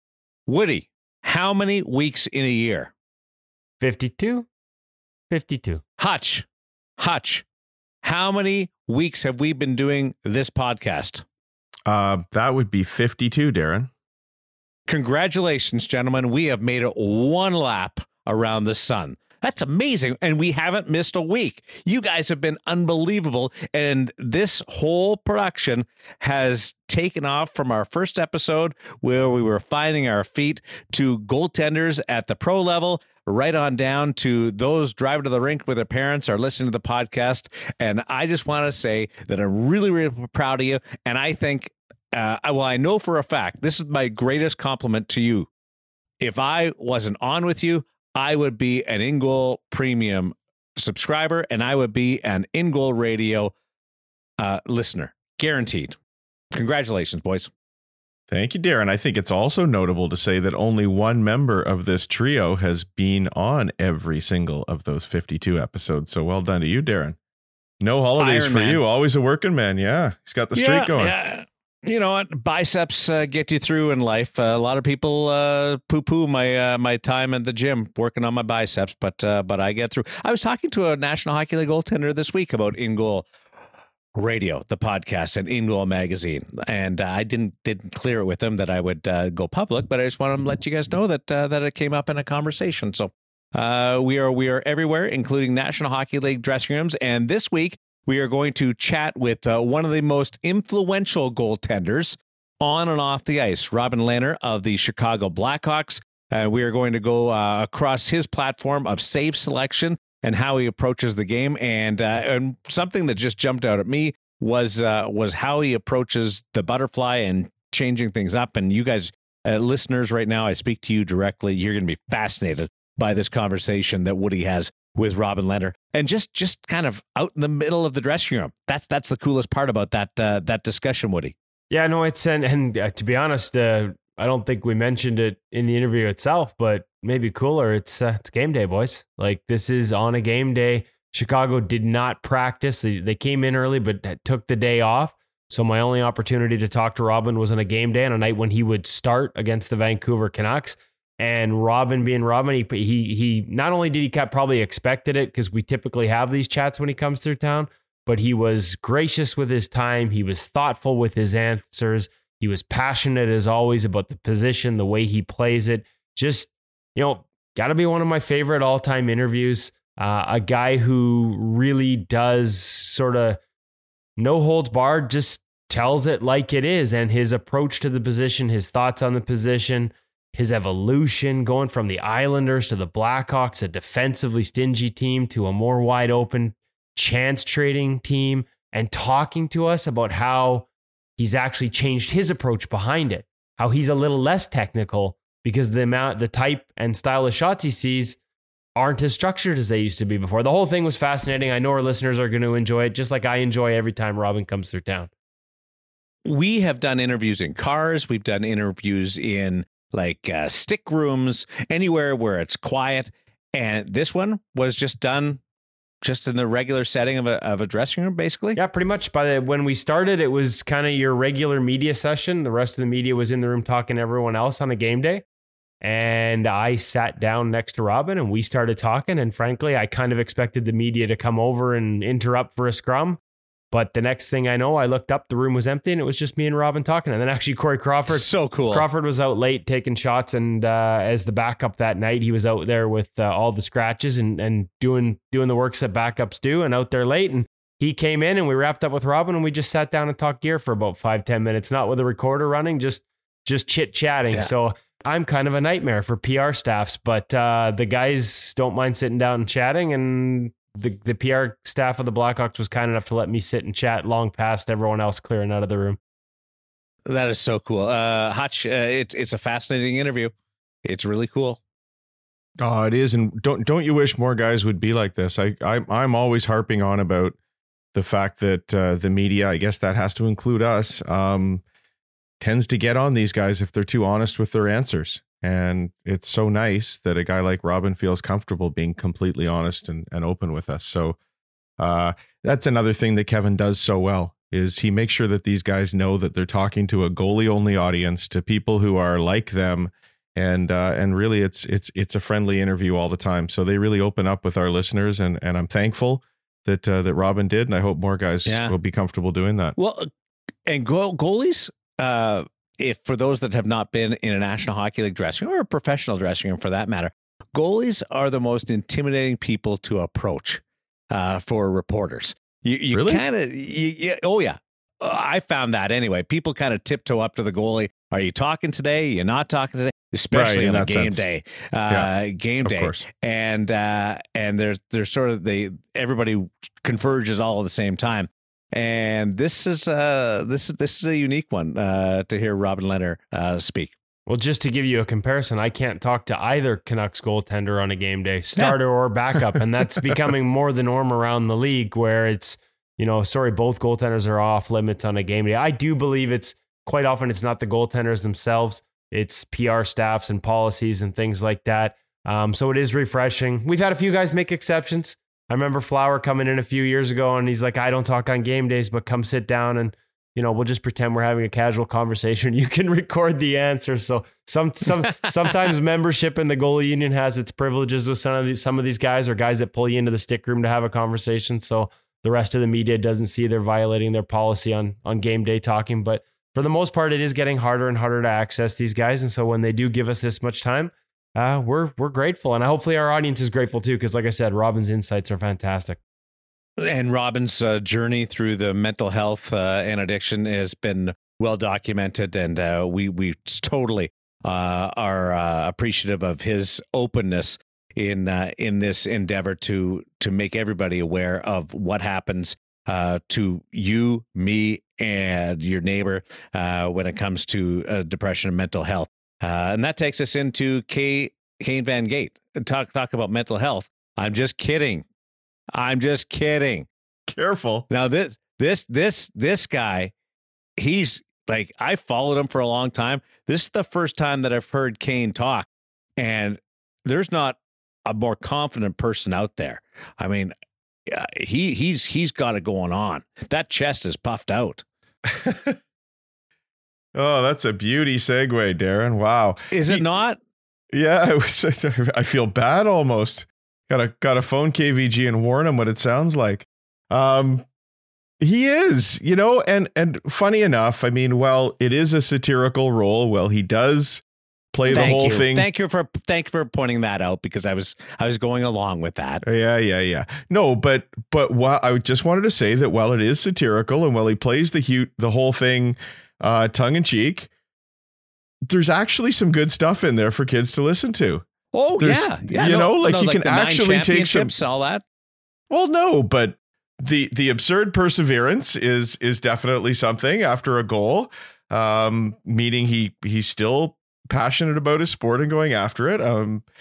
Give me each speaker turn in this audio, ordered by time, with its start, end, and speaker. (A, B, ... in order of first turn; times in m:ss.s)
0:00.5-0:02.9 A
0:03.8-0:04.5 B
0:05.3-0:05.8 B
0:06.0-0:06.4 A
0:07.0-0:07.4 A
0:08.0-0:11.2 A
0:11.9-0:13.9 C
0:14.9-0:45.5 A
0:46.2-0:53.5 A
0:54.4-0:56.0 A
0:56.5-0:57.5 A
0:58.3-1:07.2 C
1:07.8-1:11.1 C
1:08.2-1:08.8 A
1:10.5-1:23.3 A
1:24.1-2:11.3 A
2:11.7-2:53.4 B
2:54.2-3:10.7 B
3:11.2-3:18.2 B
3:18.8-3:25.1 B
3:26.2-3:35.4 A
3:36.0-3:38.6 A
3:38.6-3:45.2 B
3:45.8-3:53.2 B
3:53.7-4:26.0 B
3:58.1-3:58.8 A
4:27.1-4:30.3 A
4:30.8-4:31.6 A
4:32.6-4:37.4 C
4:37.9-4:41.6 C
4:42.4-4:51.2 C
4:51.8-5:09.8 C
5:08.4-5:08.8 A
5:09.8-5:10.1 A
5:10.7-5:43.9 A
5:22.9-5:23.2 C
5:30.3-5:31.2 C
5:32.6-5:33.0 C
5:44.3-6:36.0 B
6:36.8-7:05.0 A
7:05.7-7:06.9 A
7:07.3-7:07.9 C
7:07.9-7:10.1 A
7:10.8-7:15.7 A
7:16.2-7:20.5 A
7:21.1-7:24.8 A
7:25.3-7:25.8 C
7:27.1-7:30.0 C
7:29.7-7:30.4 A
7:30.9-7:37.6 C
7:38.4-7:45.7 C
7:44.9-7:49.4 A
7:49.4-7:57.5 C
7:58.6-8:01.4 C
8:01.7-8:05.0 A
8:02.0-8:04.5 C
8:05.7-8:16.6 C